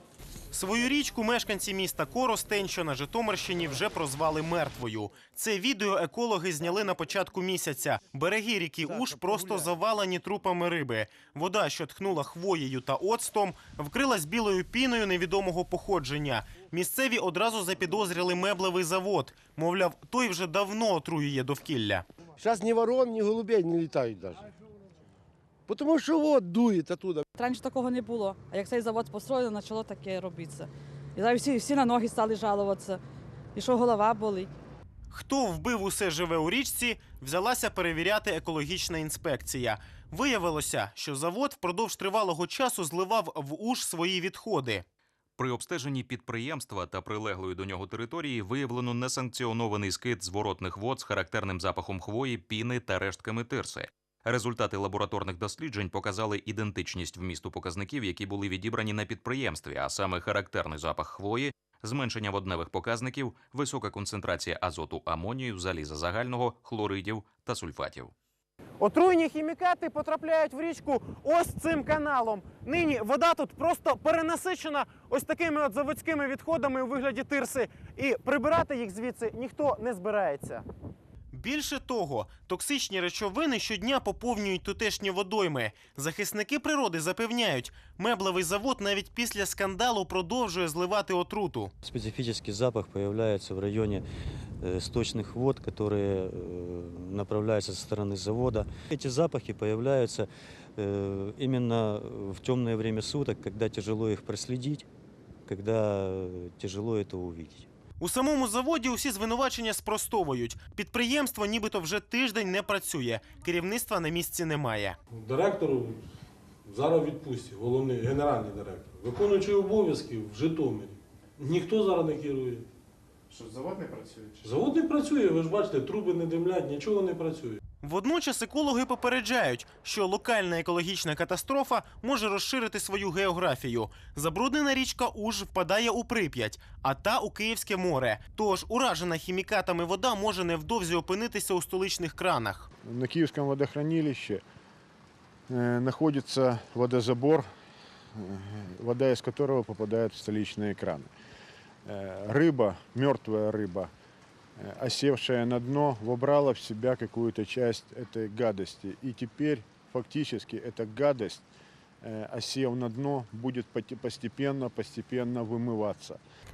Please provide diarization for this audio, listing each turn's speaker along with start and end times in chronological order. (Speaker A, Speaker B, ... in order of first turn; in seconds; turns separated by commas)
Speaker A: 0.5-22.0, Speaker B: 22.4-24.4, Speaker B: 25.7-27.2, Speaker C: 27.4-33.0, Speaker C: 33.5-34.5, Speaker A: 35.1-44.8, Speaker D: 45.4-68.1, Speaker A: 68.8-80.6, Speaker A: 81.3-91.7, Speaker E: 91.8-94.0, Speaker E: 94.6-104.9, Speaker E: 105.5-107.7, Speaker A: 108.0-115.0, Speaker F: 115.1-116.0, Speaker F: 116.7-122.7, Speaker F: 124.4-127.6, Speaker A: 127.8-142.7, Speaker G: 142.8-144.4, Speaker G: 145.5-147.5, Speaker G: 148.2-151.1, Speaker G: 151.8-153.9, Speaker G: 154.6-161.4, Speaker G: 162.0-166.2